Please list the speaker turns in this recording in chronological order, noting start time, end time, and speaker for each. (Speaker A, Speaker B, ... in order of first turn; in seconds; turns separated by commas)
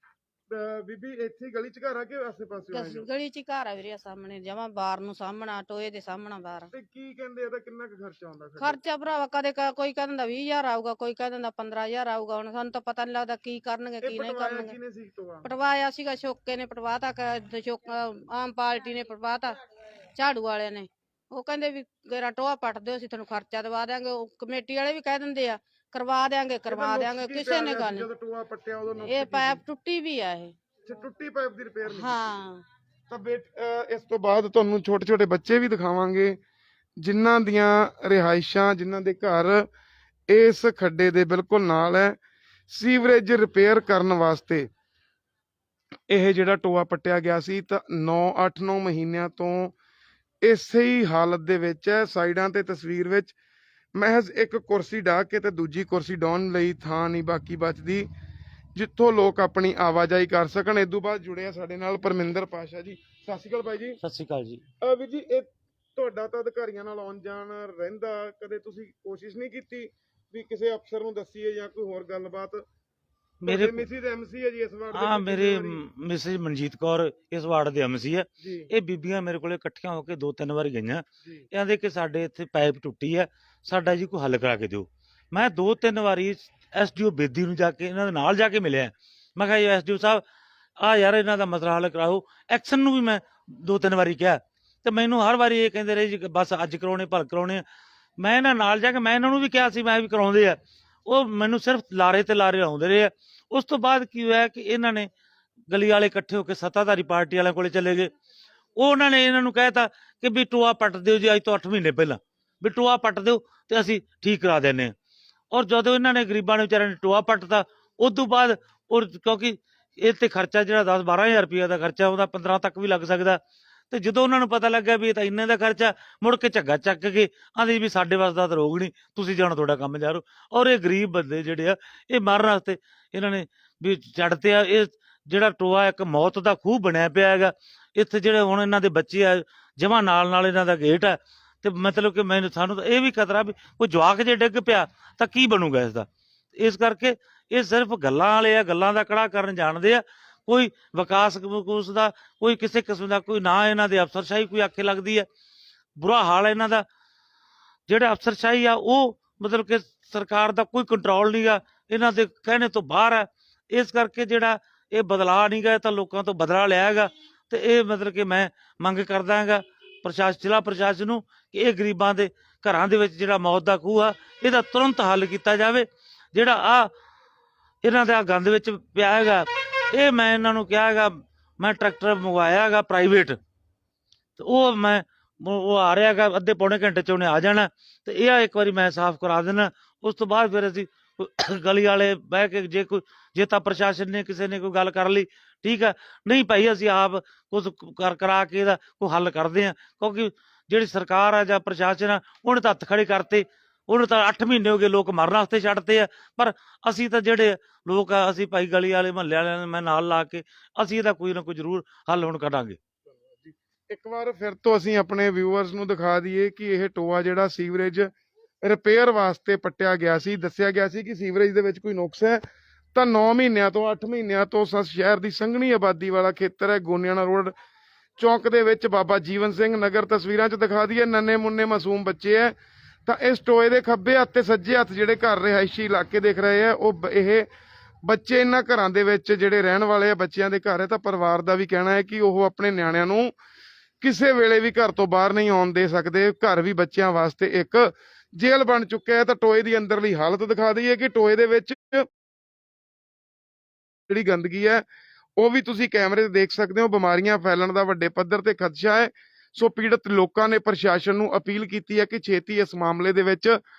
Speaker A: 0.5-3.1, Speaker B: 2.7-6.7, Speaker A: 6.7-8.8, Speaker B: 8.6-14.8, Speaker A: 14.0-15.5, Speaker B: 15.4-19.6, Speaker B: 20.1-28.1, Speaker A: 26.6-29.6, Speaker B: 29.0-30.5, Speaker A: 30.8-32.2, Speaker B: 31.9-32.6, Speaker A: 33.1-36.4, Speaker A: 37.0-39.7, Speaker A: 40.3-42.2, Speaker A: 42.7-44.7, Speaker A: 46.1-49.7, Speaker A: 50.4-53.3, Speaker A: 53.9-58.1, Speaker A: 58.7-64.0, Speaker C: 64.0-64.6, Speaker A: 64.8-72.6, Speaker C: 73.4-73.9, Speaker A: 73.5-75.8, Speaker C: 74.9-90.2, Speaker A: 78.4-78.7, Speaker A: 81.2-81.5, Speaker C: 90.8-97.6, Speaker C: 98.2-105.1, Speaker C: 105.7-108.1, Speaker C: 108.8-114.9, Speaker C: 115.5-123.4, Speaker C: 123.9-155.3, Speaker C: 156.0-156.8, Speaker C: 157.9-176.9, Speaker C: 177.8-183.3, Speaker C: 184.4-212.8, Speaker A: 213.3-222.4, Speaker A: 222.9-227.5, Speaker A: 228.2-232.5, Speaker A: 233.1-237.4, Speaker A: 238.0-243.3, Speaker A: 244.0-252.1, Speaker A: 254.1-254.8, Speaker A: 255.4-263.6